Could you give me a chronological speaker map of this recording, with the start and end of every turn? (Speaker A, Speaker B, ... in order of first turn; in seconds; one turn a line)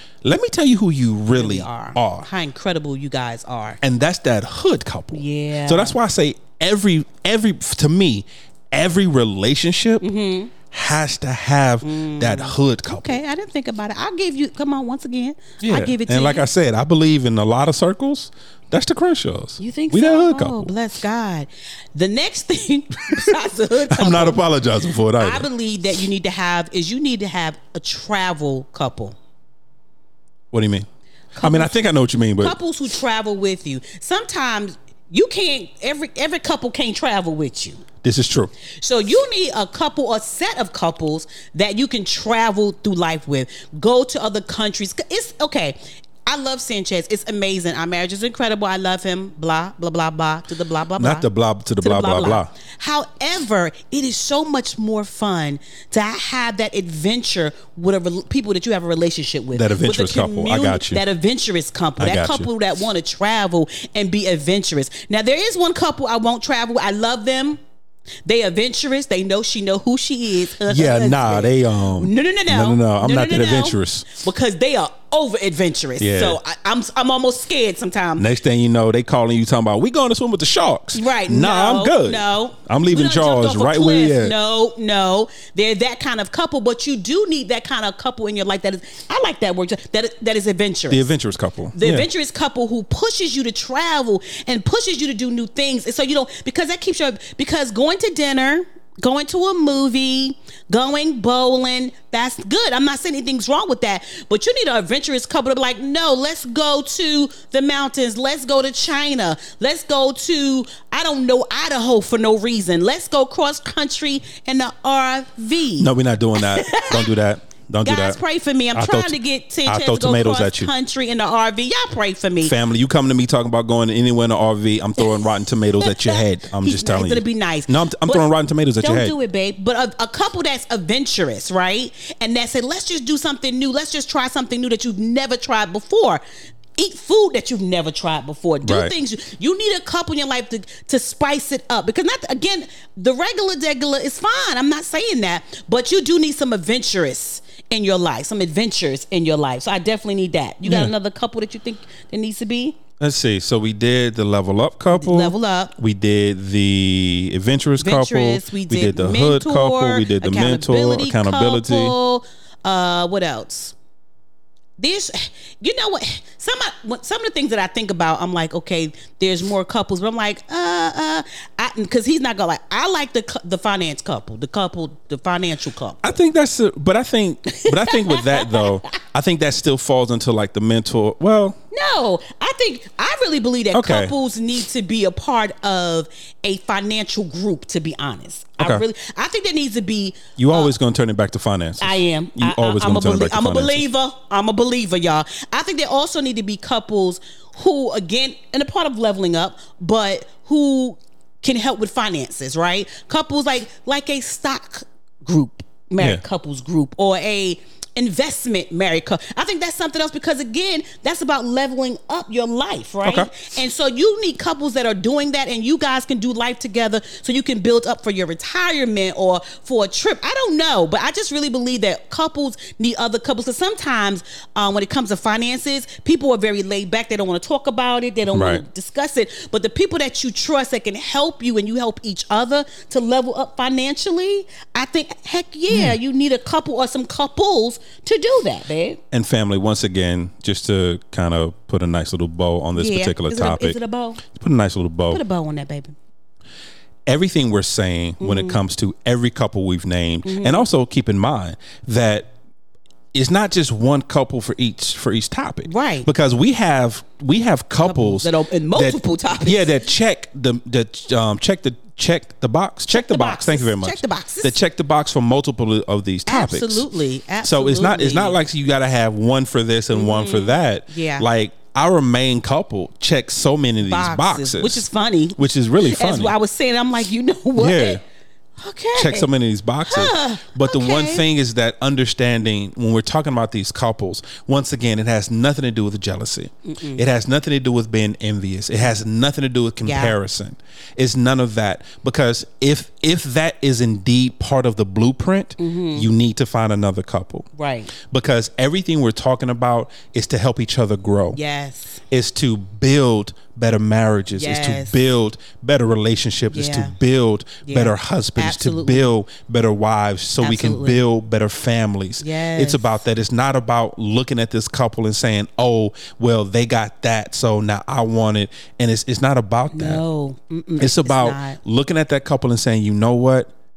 Speaker A: 0.2-2.3
Speaker B: 1.3-3.8
Speaker A: 3.8-10.0
Speaker B: 5.1-6.0
Speaker B: 10.0-10.5
Speaker A: 10.7-13.2
Speaker B: 11.8-16.4
Speaker A: 15.6-20.7
Speaker B: 19.6-24.4
Speaker A: 23.9-25.5
Speaker B: 25.2-29.1
Speaker A: 30.5-30.9
Speaker B: 31.4-31.8
Speaker A: 31.4-32.5
Speaker B: 32.4-37.8
Speaker A: 38.0-38.5
Speaker B: 38.8-51.3
Speaker A: 51.0-52.5
Speaker B: 51.8-67.6
Speaker A: 59.5-61.0
Speaker A: 62.0-62.5
Speaker B: 68.2-78.3
Speaker A: 70.7-74.2
Speaker A: 76.0-76.4
Speaker A: 78.2-84.3
Speaker B: 80.9-91.0
Speaker A: 90.9-92.1
Speaker B: 91.8-117.1
Speaker A: 115.8-118.2
Speaker B: 117.8-122.5
Speaker A: 118.7-120.7
Speaker A: 122.4-129.1
Speaker B: 125.8-128.2
Speaker B: 128.8-136.2
Speaker B: 136.8-152.8
Speaker A: 138.6-138.9
Speaker A: 150.6-150.9
Speaker A: 153.0-161.9
Speaker B: 154.9-155.7
Speaker B: 157.8-163.7
Speaker B: 164.8-176.1
Speaker A: 176.0-181.6
Speaker B: 177.5-179.0
Speaker B: 181.7-190.7
Speaker A: 183.7-184.1
Speaker A: 188.6-188.8
Speaker A: 190.4-193.8
Speaker B: 191.8-239.0
Speaker A: 213.0-213.3
Speaker A: 228.3-228.6
Speaker A: 235.7-236.0
Speaker A: 239.1-245.2
Speaker B: 242.8-244.2
Speaker B: 245.1-245.9
Speaker A: 247.1-252.3
Speaker B: 248.2-248.6
Speaker B: 250.2-250.6
Speaker A: 253.1-266.9
Speaker B: 255.7-256.1
Speaker B: 257.8-259.9
Speaker B: 262.9-264.5
Speaker B: 266.3-268.4
Speaker A: 267.4-276.4
Speaker B: 269.9-271.2
Speaker B: 273.8-278.0
Speaker A: 277.6-278.0
Speaker B: 278.6-279.3
Speaker A: 278.9-297.5
Speaker B: 279.9-281.2
Speaker B: 286.6-287.0
Speaker B: 289.8-290.1
Speaker B: 295.6-296.1
Speaker B: 297.6-297.9
Speaker A: 298.0-301.4
Speaker B: 301.3-302.0
Speaker A: 302.1-320.0
Speaker B: 304.3-305.0
Speaker B: 306.5-307.0
Speaker B: 307.6-309.1
Speaker B: 310.4-311.0
Speaker B: 312.2-312.9
Speaker B: 319.7-321.6
Speaker A: 320.8-323.5